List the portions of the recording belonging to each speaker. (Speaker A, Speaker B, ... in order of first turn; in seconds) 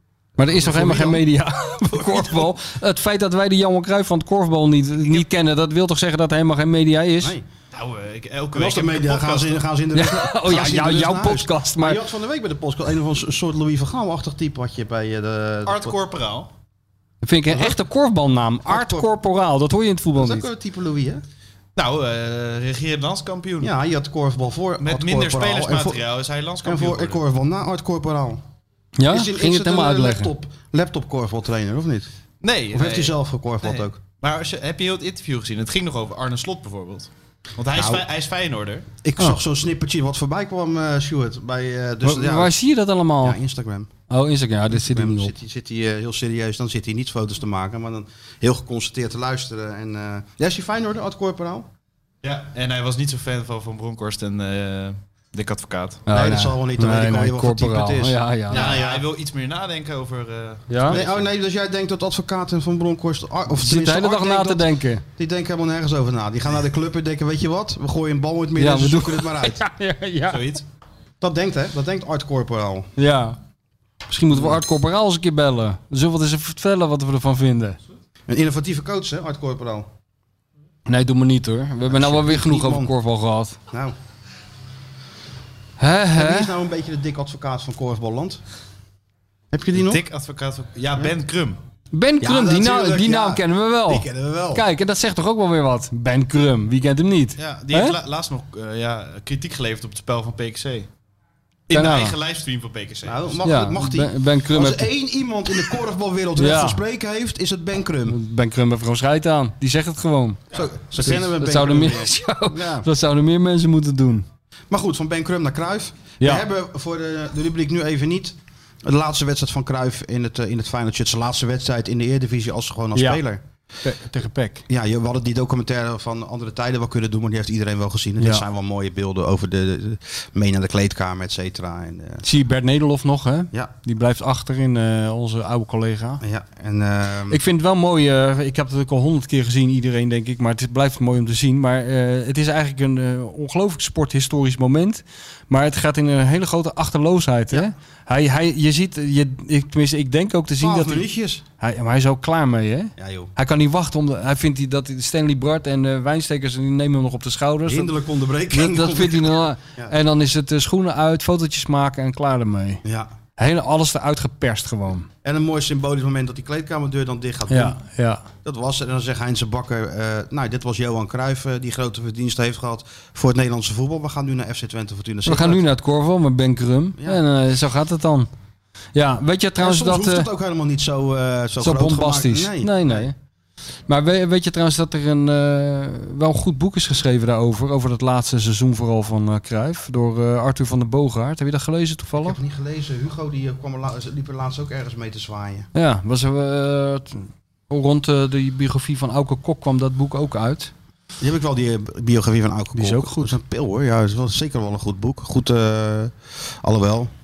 Speaker A: 0.4-7.3, 9.9-12.0, 17.2-20.5, 29.0-30.3, 42.0-43.4, 44.1-45.3, 56.1-58.8, 60.7-61.0, 63.6-65.0, 68.6-70.6, 73.0-73.4, 74.1-77.8, 80.9-83.6, 85.8-86.5, 91.9-98.0, 101.7-102.2, 103.4-104.9, 106.4-106.8, 108.1-110.4, 111.0-114.3, 116.2-116.5, 123.0-123.2, 123.8-124.6, 132.2-136.2, 137.3-151.1, 151.6-157.9, 158.5-162.8, 163.4-165.1, 167.5-168.3, 175.3-178.3, 178.9-180.3, 181.6-183.1, 183.9-192.4, 195.8-200.7, 202.8-203.4
Speaker B: 0.4-1.2, 1.9-2.5, 8.5-16.0, 17.5-17.8, 18.6-19.1, 20.2-21.2, 23.6-26.0, 26.6-28.4, 29.1-32.1, 32.7-34.0, 37.7-38.1, 39.0-42.5, 43.2-43.9, 44.7-51.7, 56.1-59.1, 60.9-69.6, 71.2-72.9, 78.3-79.9, 81.9-83.0, 83.7-84.0, 86.1-88.4, 89.5-90.0, 92.2-94.7, 103.0-108.2, 110.5-112.9, 114.7-123.4, 124.7-132.2, 136.2-137.4, 150.6-151.4, 153.0-153.3, 157.7-159.9, 162.8-163.1, 165.2-167.8, 168.4-175.7, 177.0-177.2, 179.6-183.1, 192.2-195.7, 201.2-207.1
Speaker C: 7.7-9.6, 15.7-16.5, 21.8-23.7, 24.8-27.2, 32.4-38.9, 52.2-56.0, 58.5-61.3, 70.3-70.6, 89.7-91.6, 97.4-100.9, 101.7-103.4